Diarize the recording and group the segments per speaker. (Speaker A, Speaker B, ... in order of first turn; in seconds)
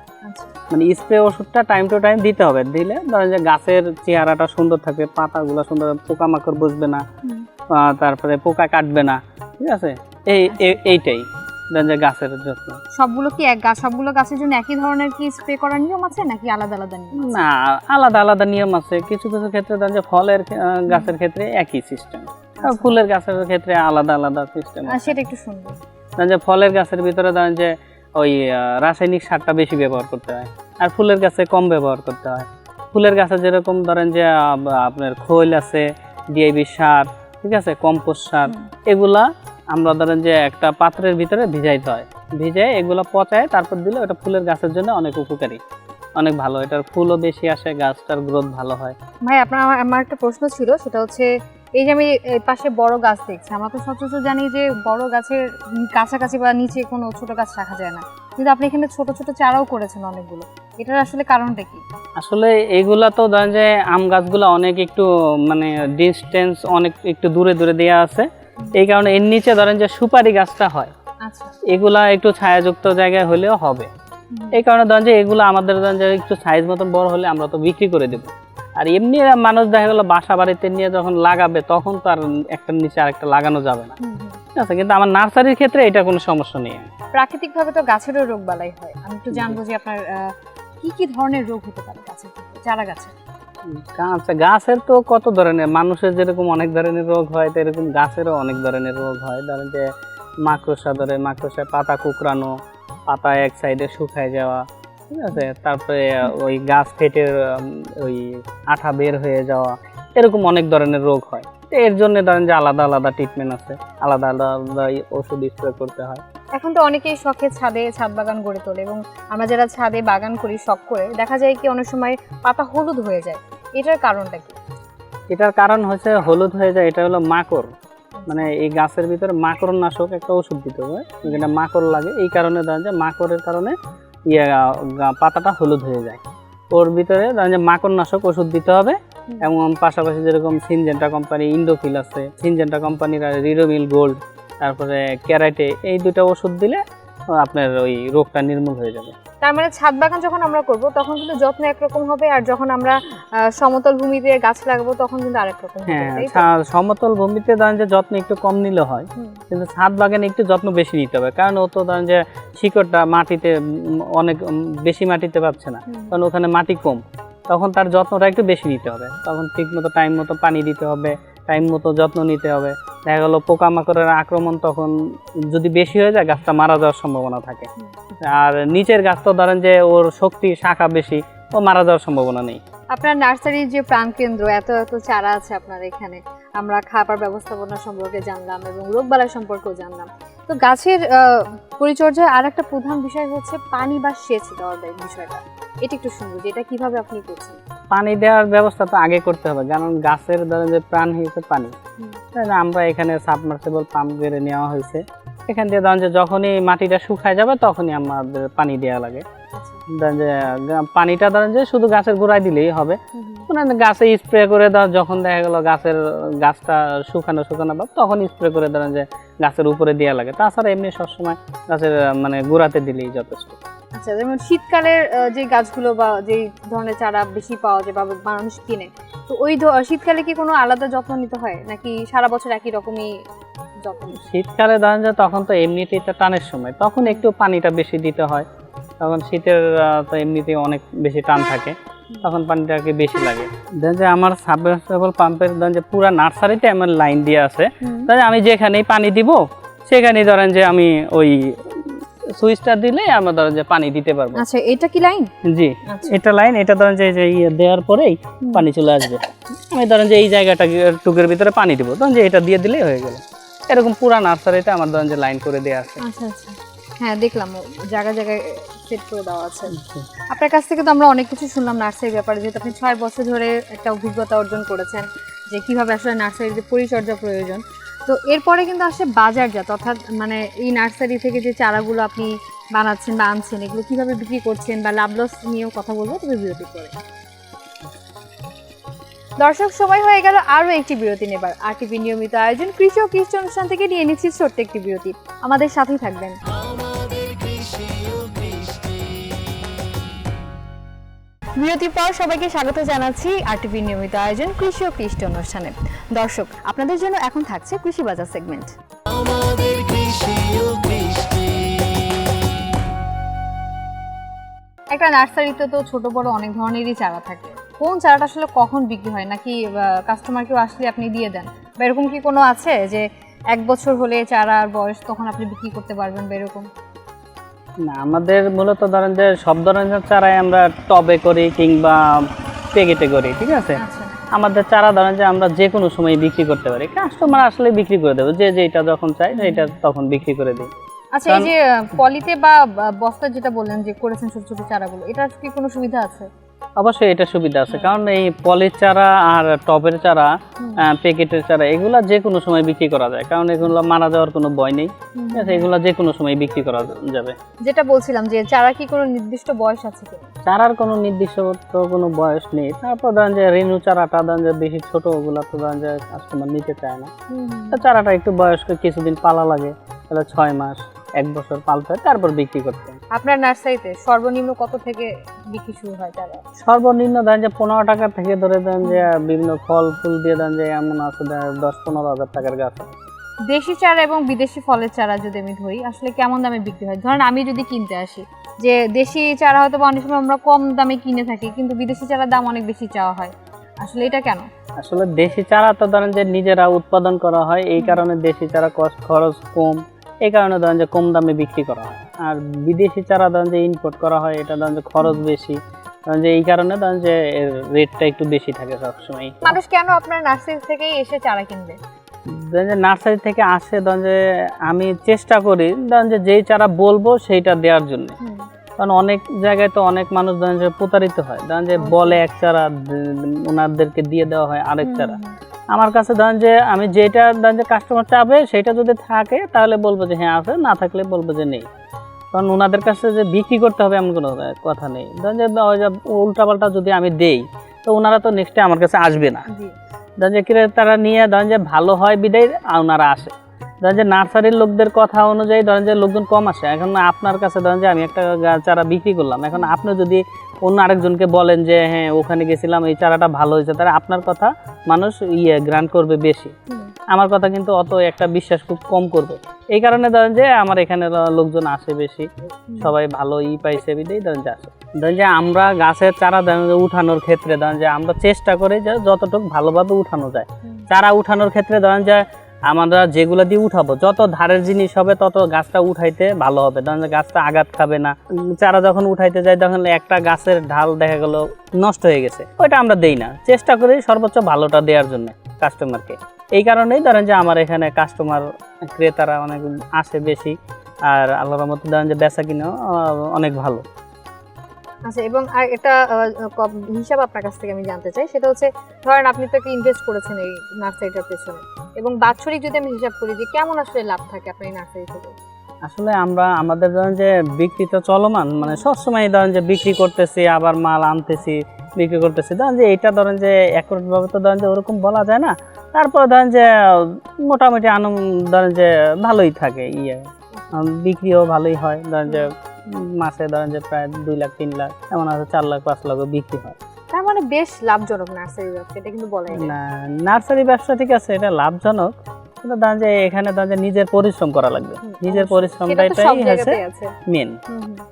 Speaker A: 0.2-0.5, 10.5-10.8, 12.9-17.4, 22.6-22.9, 24.9-25.8, 49.2-61.8, 71.2-71.6, 74.3-74.6, 84.0-84.4, 87.1-93.1, 116.5-124.6, 128.2-128.5, 149.4-156.5, 165.9-166.2, 182.9-197.6, 209.5-209.8, 213.1-213.5, 223.9-233.1, 233.8-234.2, 247.8-248.1, 254.3-255.3, 255.8-256.2, 266.0-286.9, 289.4-296.4, 301.6-308.7, 314.9-326.6, 333.8-334.2, 339.3-339.7, 341.1-346.3, 347.7-347.9, 355.1-355.7, 357.6-360.3, 367.3-367.8, 373.1-376.4, 383.5-394.5, 409.4-411.8, 418.2-418.5, 421.8-422.2, 424.8-425.3, 439.5-439.7, 462.7-463.0, 495.1-505.4, 520.5-520.8, 527.1-529.8, 535.0-537.2, 537.7-538.0
Speaker B: 0.7-7.0, 7.7-12.8, 17.1-25.2, 26.2-45.6, 46.1-49.0, 62.2-70.9, 71.7-73.9, 74.5-84.0, 84.5-86.9, 89.3-89.6, 93.7-99.9, 100.4-102.5, 103.1-116.2, 125.3-127.7, 128.3-133.8, 134.3-149.2, 155.9-174.9, 175.5-182.6, 197.9-201.7, 202.3-209.2, 209.9-223.6, 234.2-238.5, 239.0-254.4, 255.4-266.0, 269.8-270.1, 327.8-332.0, 332.7-333.8, 334.3-340.7, 346.8-357.4, 360.4-367.1, 367.7-373.0, 376.6-383.0, 394.8-409.6, 412.3-418.2, 418.8-425.2, 425.7-431.7, 432.3-439.5, 440.2-456.5, 457.1-490.6, 491.1-493.8, 505.8-526.8, 529.5-537.6